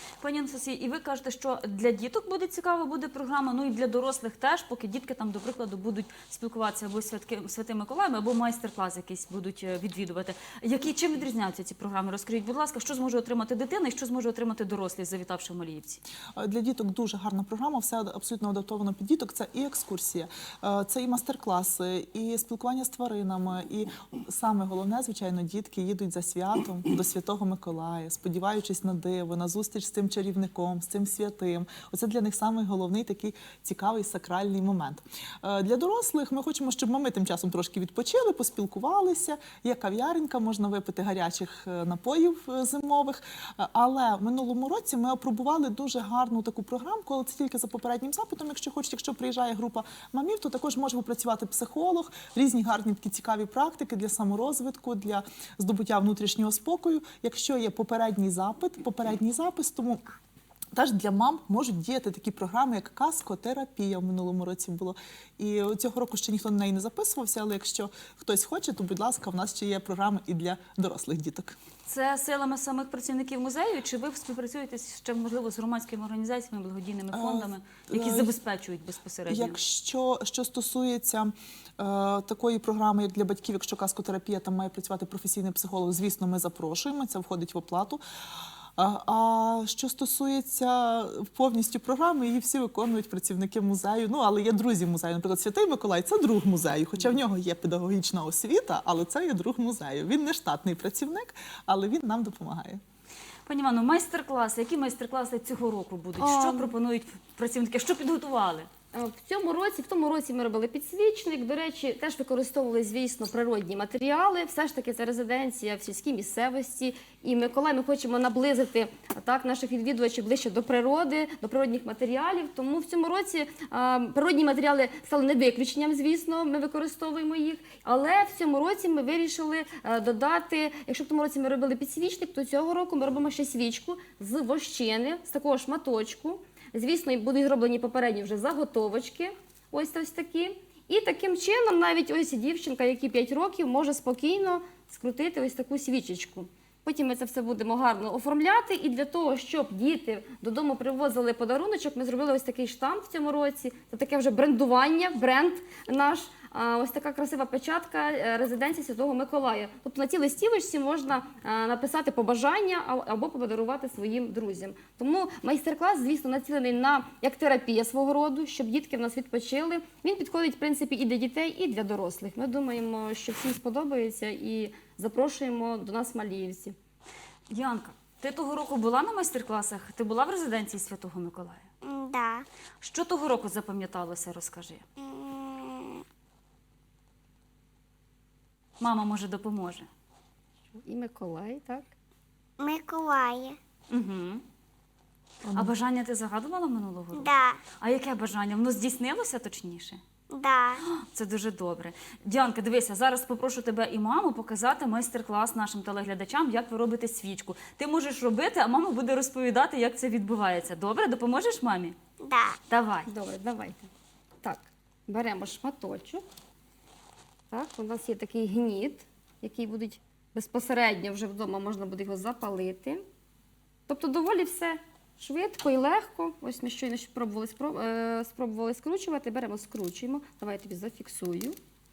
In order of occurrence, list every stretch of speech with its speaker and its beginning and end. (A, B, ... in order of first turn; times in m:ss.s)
0:00.2-0:16.0 A
0:16.3-1:00.0 B
1:00.7-1:11.6 B
1:11.8-1:19.6 A
1:17.1-1:18.3 B
1:19.3-1:28.0 B
1:28.8-1:42.8 B
1:43.5-1:48.7 A
1:46.2-1:46.7 C
1:48.9-2:56.8 C
2:57.5-3:01.7 A
3:01.8-3:02.4 D
3:02.8-3:04.8 A
3:05.0-3:06.0 D
3:08.8-3:09.9 A
3:10.8-3:11.9 C
3:12.6-3:13.6 D
3:13.9-3:14.4 A
3:15.4-3:15.7 B
3:15.5-3:20.0 A
3:17.1-3:17.6 D
3:20.3-3:20.8 D
3:21.0-3:32.0 A
3:32.2-3:32.6 D
3:32.7-3:33.1 A
3:33.1-3:33.9 C
3:34.4-3:36.2 C
3:37.5-3:43.0 C
3:43.9-3:51.6 C